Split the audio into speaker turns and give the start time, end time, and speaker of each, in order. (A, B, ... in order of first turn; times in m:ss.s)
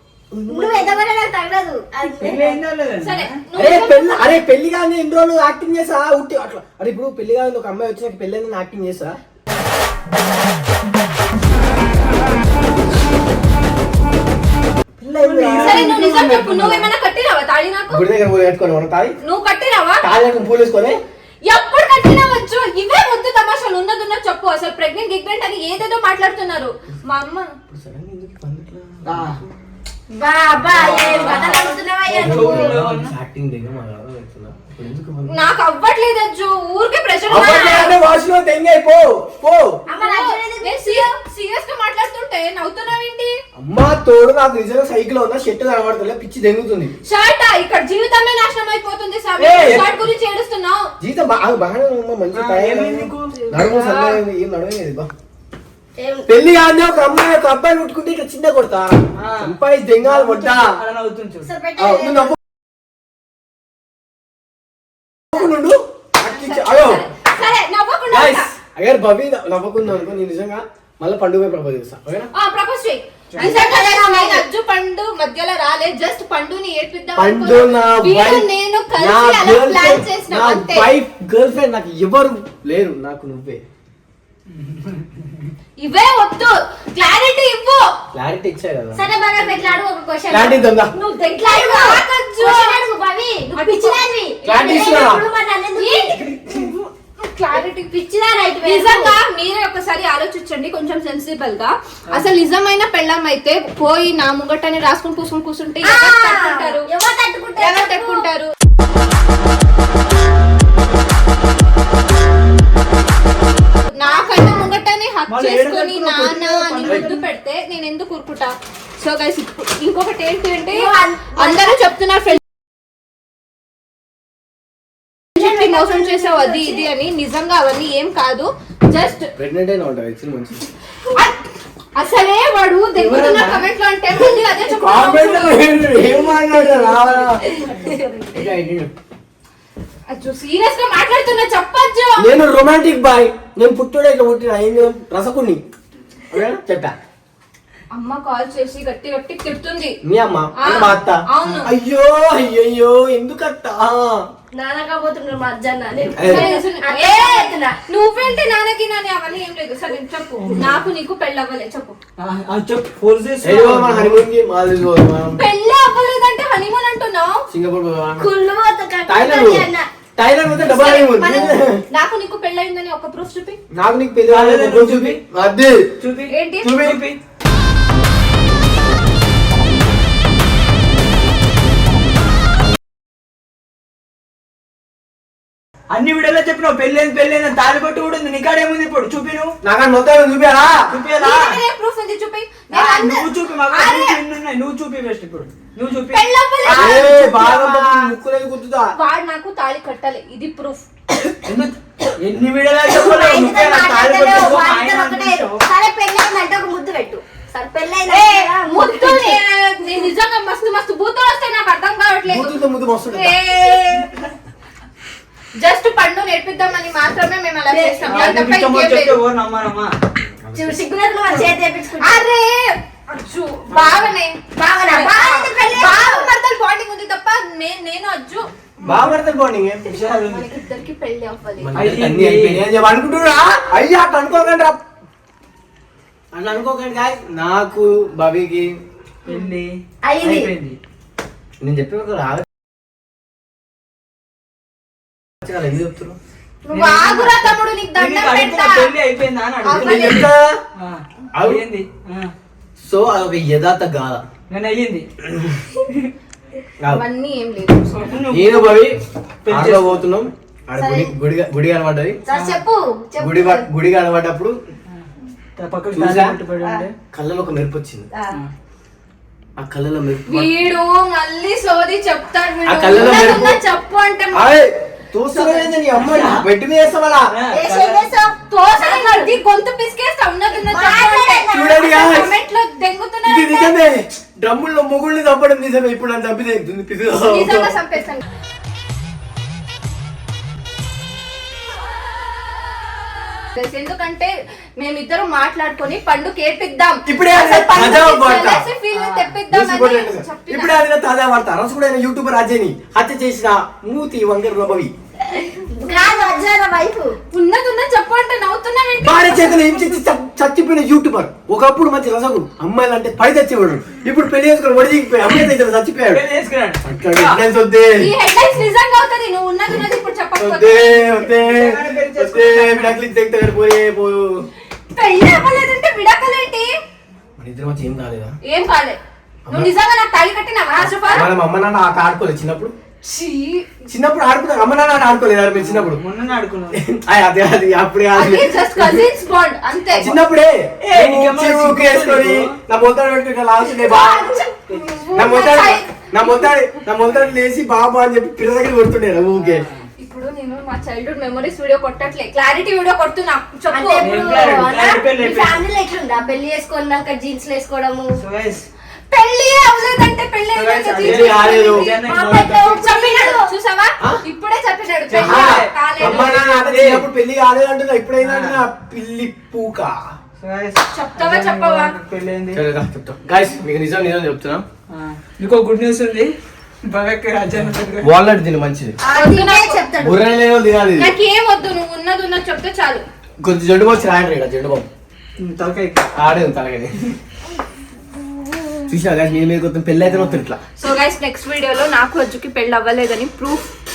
0:00.3-0:01.0 A
0:00.5-0:02.6 B
0:02.2-0:03.3 C
0:03.0-0:04.2 D
0:03.6-0:09.2 A
0:15.0-0:15.9 A
0:15.2-0:16.9 C
0:15.6-0:18.0 D
0:17.9-0:19.2 A
0:19.2-0:20.0 D
0:20.0-0:21.0 A
0:21.4-0:27.5 D
0:27.7-0:29.3 A
0:29.0-0:29.4 C
0:30.1-0:32.8 B
0:30.7-0:33.1 C
0:32.2-0:35.4 A
0:35.3-0:38.0 D
0:37.3-0:39.8 A
0:37.4-0:37.9 B
0:39.9-0:41.1 B
0:40.0-0:43.4 D
0:43.6-0:46.9 A
0:47.0-0:50.9 D
0:49.4-0:49.9 C
0:49.6-0:49.9 A
0:51.0-0:55.1 A
0:52.3-0:53.4 C
0:53.7-0:54.2 D
0:56.0-0:56.3 B
0:56.3-1:00.8 A
0:59.2-1:01.5 C
1:01.4-1:02.4 B
1:01.8-1:02.4 A
1:05.3-1:07.1 A
1:06.2-1:08.5 D
1:08.1-1:12.3 A
1:12.3-1:20.9 D
1:13.4-1:14.4 B
1:17.2-1:23.6 A
1:24.5-1:25.5 C
1:25.8-1:27.9 D
1:28.1-1:29.1 A
1:28.9-1:36.1 B
1:30.3-1:30.9 A
1:31.4-1:32.9 D
1:33.6-1:35.1 D
1:34.4-1:35.3 A
1:35.8-1:37.9 D
1:37.5-1:39.2 B
1:38.6-1:46.9 D
1:45.8-1:48.3 B
1:47.6-1:48.5 D
1:53.9-2:02.4 D
1:55.3-1:57.2 C
2:00.7-2:01.8 B
2:05.4-2:09.3 D
2:05.4-2:06.9 B
2:09.4-2:10.7 A
2:12.0-2:15.8 D
2:12.9-2:13.7 A
2:14.7-2:17.6 A
2:16.0-2:18.5 B
2:18.3-2:18.9 A
2:20.1-2:22.4 D
2:22.2-2:25.6 A
2:26.3-2:27.0 A
2:28.0-2:30.0 D
2:30.0-2:34.2 A
2:30.6-2:31.7 D
2:34.5-2:37.8 B
2:36.2-2:36.5 A
2:36.2-2:42.0 D
2:42.2-2:44.2 C
2:43.4-2:45.4 A
2:45.4-2:47.4 D
2:47.5-2:48.3 A
2:48.2-2:49.9 B
2:49.1-2:51.8 A
2:50.7-2:53.6 D
2:50.7-2:51.5 B
2:53.7-2:55.8 A
2:54.3-2:55.2 C
2:56.0-2:57.2 C
2:56.3-2:56.8 D
2:56.6-2:57.0 A
3:05.9-3:09.5 C
3:09.6-3:10.8 A
3:10.9-3:11.6 C
3:11.2-3:14.2 D
3:12.7-3:16.2 C
3:16.1-3:17.9 D
3:16.7-3:18.9 A
3:16.7-3:17.7 B
3:19.0-3:20.8 D
3:21.4-3:25.6 C
3:22.9-3:29.4 B
3:28.1-3:32.6 D
3:32.3-3:33.4 A
3:33.1-3:34.2 D
3:35.6-3:39.2 D
3:37.7-3:38.4 B
3:38.1-3:40.0 C
3:40.3-3:40.9 A
3:40.5-3:42.3 B
3:41.3-3:48.5 D
3:43.7-3:44.1 C
3:44.6-3:46.3 B
3:48.8-3:49.8 A
3:48.8-3:49.2 C
3:49.9-3:50.5 C
3:50.2-3:51.7 D
3:51.6-3:54.8 A
3:51.7-3:52.7 C
3:56.3-3:58.7 A
3:59.3-4:00.8 C
4:00.0-4:00.5 B
4:01.6-4:02.5 A
4:05.4-4:06.2 A
4:06.7-4:12.3 C
4:06.7-4:08.9 D
4:09.6-4:10.3 D
4:09.7-4:10.5 A
4:11.3-4:11.6 A
4:12.8-4:14.2 A
4:14.5-4:15.1 C
4:15.4-4:15.6 A
4:16.9-4:18.0 D
4:17.9-4:20.1 C
4:18.3-4:19.0 A
4:19.5-4:22.2 A
4:20.8-4:21.1 B
4:22.3-4:23.7 B
4:22.3-4:22.6 C
4:23.2-4:24.6 A
4:25.6-4:27.0 C
4:25.9-4:26.4 A
4:27.1-4:28.1 A
4:29.6-4:30.5 A
4:30.3-4:34.5 D
4:32.7-4:33.6 A
4:33.0-4:33.3 C
4:34.3-4:37.3 A
4:35.3-4:36.5 C
4:37.3-4:38.1 C
4:37.5-4:39.4 B
4:38.5-4:43.8 D
4:40.5-4:41.8 B
4:41.5-4:42.3 A
4:43.2-4:47.7 A
4:47.3-4:48.2 D
4:53.6-5:00.8 D
4:57.1-4:58.7 A
4:58.9-4:59.4 C
4:59.5-5:04.9 A
5:05.5-5:07.2 B
5:05.9-5:06.4 D
5:07.3-5:09.8 D
5:09.0-5:16.2 A
5:16.1-5:17.4 C
5:16.8-5:18.1 A
5:18.0-5:21.2 D
5:20.4-5:24.5 A
5:21.3-5:23.0 C
5:24.9-5:26.7 D
5:27.4-5:28.4 A
5:28.5-5:29.0 D
5:29.5-5:29.7 A
5:29.5-5:31.3 D
5:30.7-5:31.1 B
5:31.1-5:32.7 A
5:33.0-5:33.8 D
5:33.9-5:36.0 A
5:35.6-5:36.8 C
5:36.8-5:39.1 A
5:38.1-5:40.2 D
5:39.9-5:44.4 A
5:40.8-5:42.6 C
5:43.6-5:46.5 D
5:44.7-5:45.1 C
5:45.1-5:49.6 A
5:49.4-5:49.8 C
5:50.0-5:54.6 D
5:53.7-5:58.1 B
5:54.0-5:55.6 C
5:58.2-5:58.7 C
5:59.1-6:02.2 D
6:00.5-6:02.8 C
6:01.0-6:01.9 A
6:02.0-6:03.5 B
6:02.7-6:06.4 D
6:05.1-6:07.1 C
6:05.2-6:10.0 A
6:08.2-6:08.6 C
6:10.4-6:12.6 C
6:10.9-6:11.9 D
6:12.5-6:14.6 A
6:14.9-6:16.3 C
6:16.8-6:18.1 C
6:18.0-6:19.0 A
6:19.0-6:20.2 B
6:19.1-6:19.8 D
6:20.0-6:21.1 A
6:21.0-6:23.0 D
6:23.4-6:24.9 A
6:25.4-6:26.1 C
6:26.2-6:27.0 A
6:28.9-6:30.6 A
6:30.8-6:33.7 D